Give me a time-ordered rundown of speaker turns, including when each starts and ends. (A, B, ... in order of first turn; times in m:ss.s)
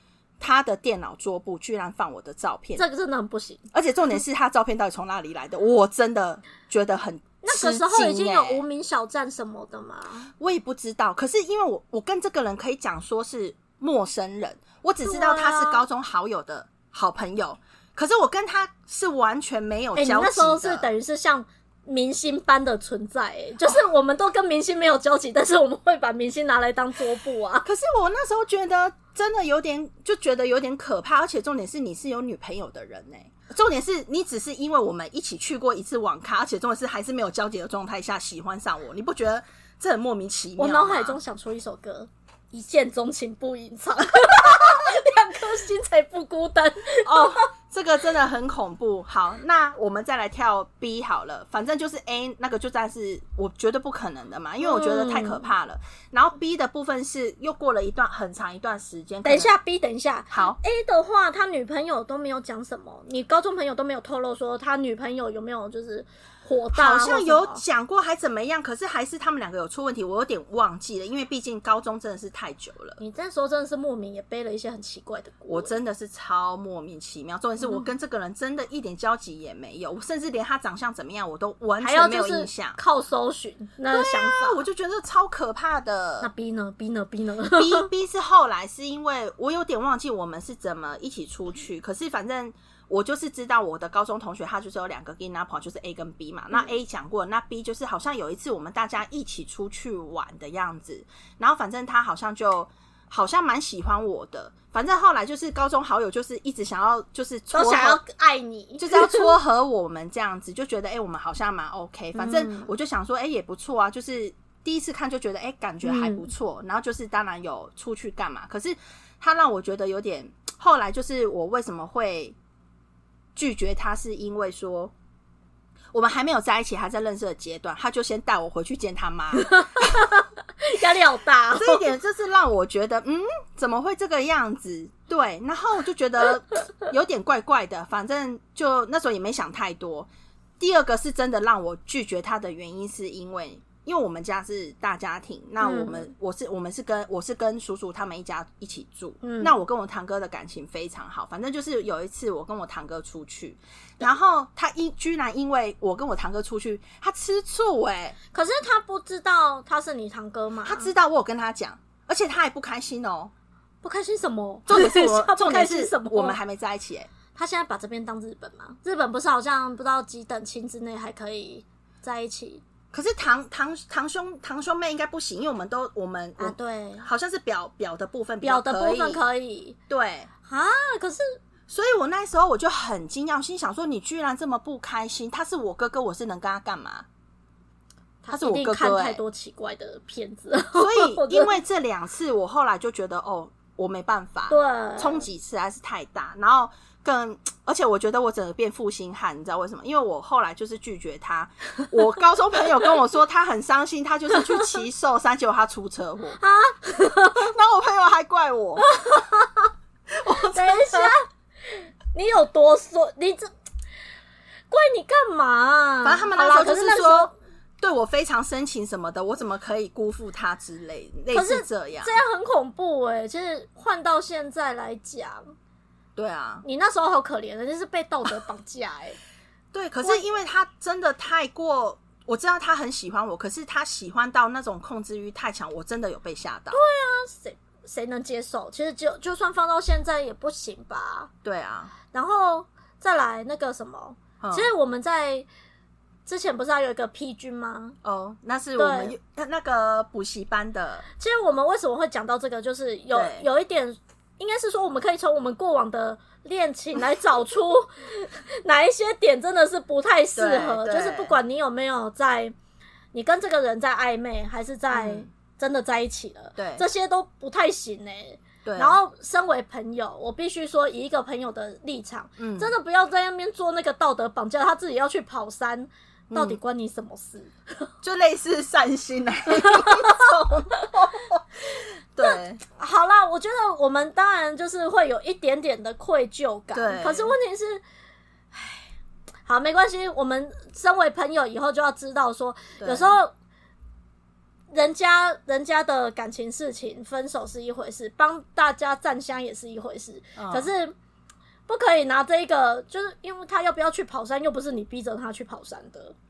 0:00.4-0:02.8 A
0:02.8-0:03.6 B
0:03.7-0:08.6 A
0:07.4-0:10.3 B
0:10.4-0:20.9 A
0:15.0-0:15.8 B
0:20.0-0:27.6 B
0:27.6-0:41.2 A
0:40.6-0:47.4 B
0:47.0-0:59.5 A
0:54.6-0:55.4 B
0:59.2-1:07.6 B
1:00.3-1:00.6 A
1:06.7-1:13.0 A
1:13.0-1:15.7 B
1:15.5-1:22.8 A
1:17.6-1:17.9 B
1:21.8-1:24.6 B
1:23.9-1:26.3 A
1:26.2-1:27.9 B
1:27.4-1:48.0 A
1:47.5-1:49.3 B
1:48.8-2:02.4 A
1:52.1-1:52.7 B
1:55.8-1:56.3 B
2:03.4-2:04.9 A
2:05.9-2:09.9 A
2:09.4-2:11.8 B
2:11.5-2:20.1 A
2:20.6-2:38.2 A
2:25.6-2:26.1 B
2:29.2-2:29.6 B
2:38.3-2:40.9 B
2:40.6-2:43.3 A
2:43.8-2:46.4 B
2:44.7-2:47.1 A
2:47.3-2:52.6 B
2:52.9-2:59.2 A
2:56.4-2:57.1 B
2:58.4-2:59.8 B
2:59.9-3:00.3 A
3:00.4-3:01.4 B
3:01.7-3:07.0 A
3:08.2-3:09.2 A
3:08.2-3:11.6 B
3:10.7-3:26.4 A
3:14.5-3:15.3 B
3:26.4-3:27.5 B
3:27.3-3:28.8 A
3:28.8-3:29.7 B
3:30.1-3:31.1 A
3:30.5-3:33.5 B
3:34.7-3:37.3 B
3:36.0-3:42.1 A
3:41.3-3:45.5 B
3:46.2-3:46.6 A
3:46.6-3:49.2 B
3:49.7-3:56.8 A
3:56.7-4:01.3 B
4:01.4-4:01.9 A
4:02.1-4:05.4 B
4:04.4-4:04.7 A
4:06.2-4:08.0 B
4:08.0-4:11.0 A
4:08.8-4:09.1 B
4:11.2-4:22.5 B
4:13.1-4:13.4 A
4:20.4-4:21.4 A
4:23.1-4:37.9 B
4:24.9-4:25.3 A
4:26.6-4:26.8 A
4:28.6-4:29.0 A
4:32.4-4:32.7 A
4:36.3-4:36.6 A
4:38.0-4:41.4 A
4:39.5-4:40.3 B
4:42.1-4:42.6 A
4:42.2-4:47.8 B
4:46.7-4:47.3 A
4:48.5-4:48.9 B
4:49.4-4:53.3 B
4:52.8-4:53.2 A
4:54.7-5:00.9 B
5:00.4-5:00.7 A
5:01.7-5:06.1 B